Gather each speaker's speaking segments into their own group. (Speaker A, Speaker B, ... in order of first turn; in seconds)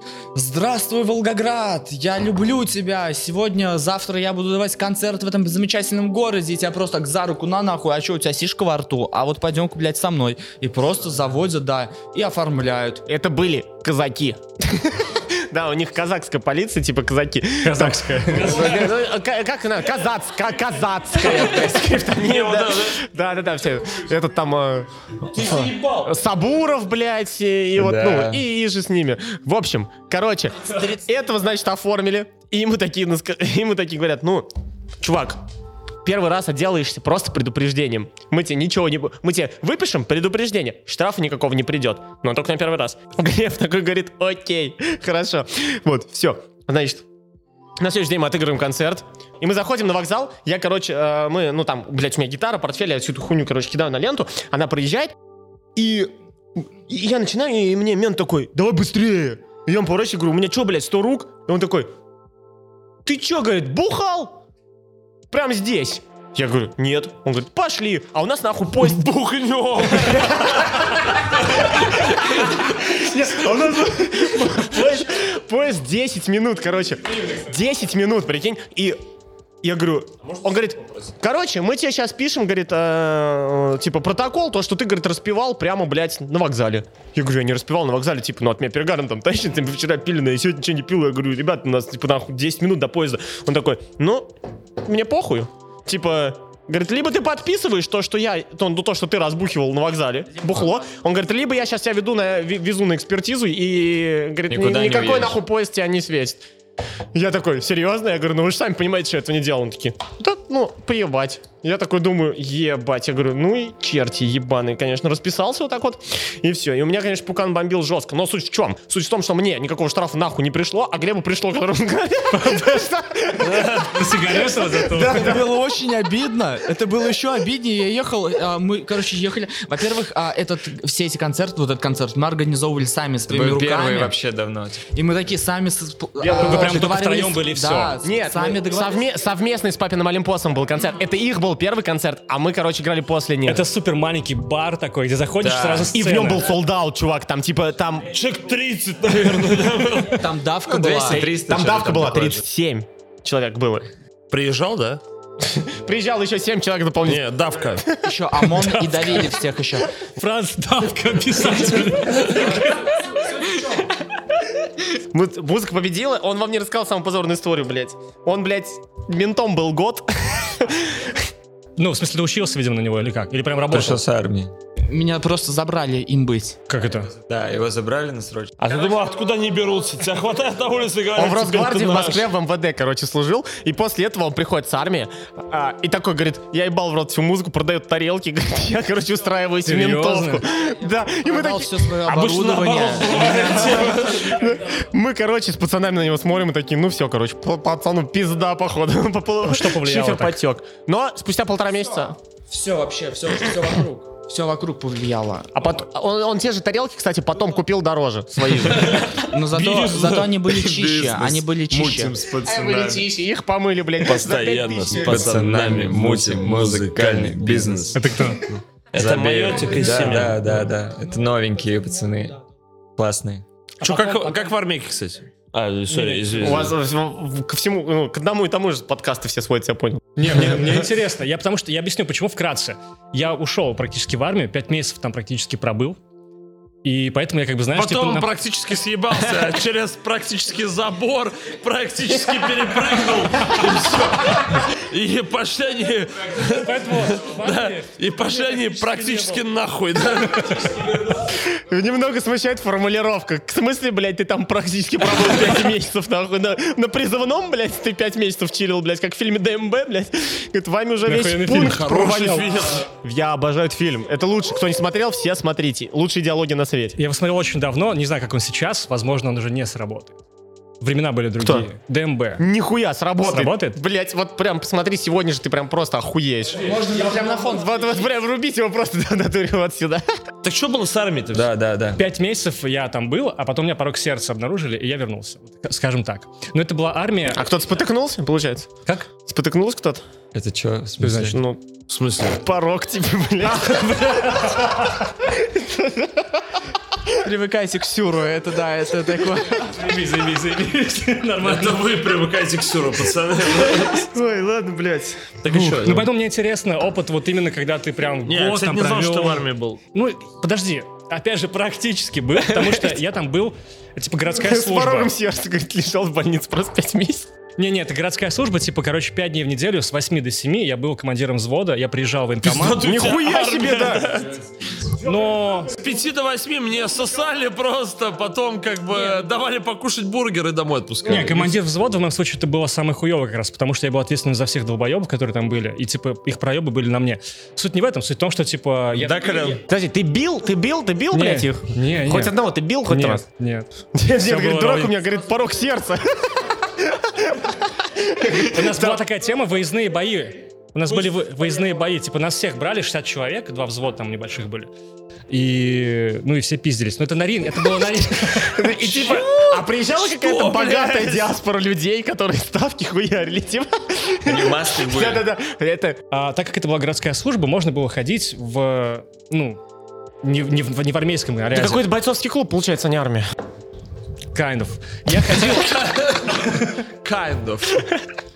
Speaker A: 0.3-13.0, 124.9-134.2, 134.9-139.0, 150.1-151.3, 158.0-159.9, 163.4-163.8, 174.9-176.6, 190.7-194.5, 202.5-205.5, 209.2-212.2, 276.6-278.1, 297.2-299.9
Speaker B: 13.1-34.5, 35.0-35.4, 36.0-47.0, 47.8-55.1, 55.8-56.1, 56.9-61.9, 63.0-64.4, 65.3-79.0, 79.6-94.3, 94.8-106.4, 107.1-123.9, 136.2-136.9, 138.0-143.6, 145.9-148.1, 151.1-153.9, 155.4-158.0, 164.9-171.2, 181.2-191.9, 194.1-202.2, 205.6-209.2, 212.4-215.3, 226.4-230.1, 251.3-267.0, 271.4-271.7, 272.4-280.1, 287.3-290.0, 291.2-291.7, 292.3-293.9, 295.2-296.4, 303.6-305.4, 312.5-313.0, 314.3-317.3, 322.8-324.2, 339.7-343.2, 343.9-349.0, 358.5-366.0, 371.5-373.3
Speaker C: 17.6-18.8, 122.3-122.9, 123.8-125.4, 136.4-138.0, 143.5-146.5, 158.6-159.2, 160.0-163.1, 171.8-174.0, 176.7-177.1, 189.7-190.4, 199.4-200.4, 217.9-218.5, 223.8-224.5, 225.9-226.7, 230.2-236.0, 236.8-238.3, 246.4-249.4, 250.2-250.9, 261.1-262.5, 267.0-270.1, 270.8-272.4, 273.2-273.8, 282.0-287.4, 291.0-291.4, 293.5-294.9, 299.6-301.9, 305.5-315.1, 317.6-322.9, 324.9-325.7, 331.1-339.6, 341.1-342.4, 342.9-343.7, 344.2-345.0, 348.3-354.7, 355.3-358.7, 366.1-369.6, 370.2-371.9, 374.3-376.8
Speaker D: 22.1-23.0, 25.4-26.1, 69.3-70.1, 123.5-123.9, 148.1-150.3, 154.3-155.0, 157.1-157.8, 162.2-162.5, 178.6-182.3, 192.0-194.3, 208.8-210.9, 214.0-218.0, 218.9-220.5, 223.8-226.8, 237.7-251.2, 261.7-262.9, 280.4-281.5, 291.9-292.4, 301.4-304.1, 305.4-306.1, 308.3-309.8, 322.4-324.4, 325.7-331.6, 338.9-339.6, 358.8-361.3, 375.5-377.7
Speaker E: 27.8-28.4, 104.5-105.4, 133.3-134.9, 145.4-145.9, 150.7-152.4, 173.7-174.5, 177.2-178.6, 210.7-213.1, 214.9-222.4, 223.0-223.4, 281.3-282.0, 290.3-291.4, 364.2-365.3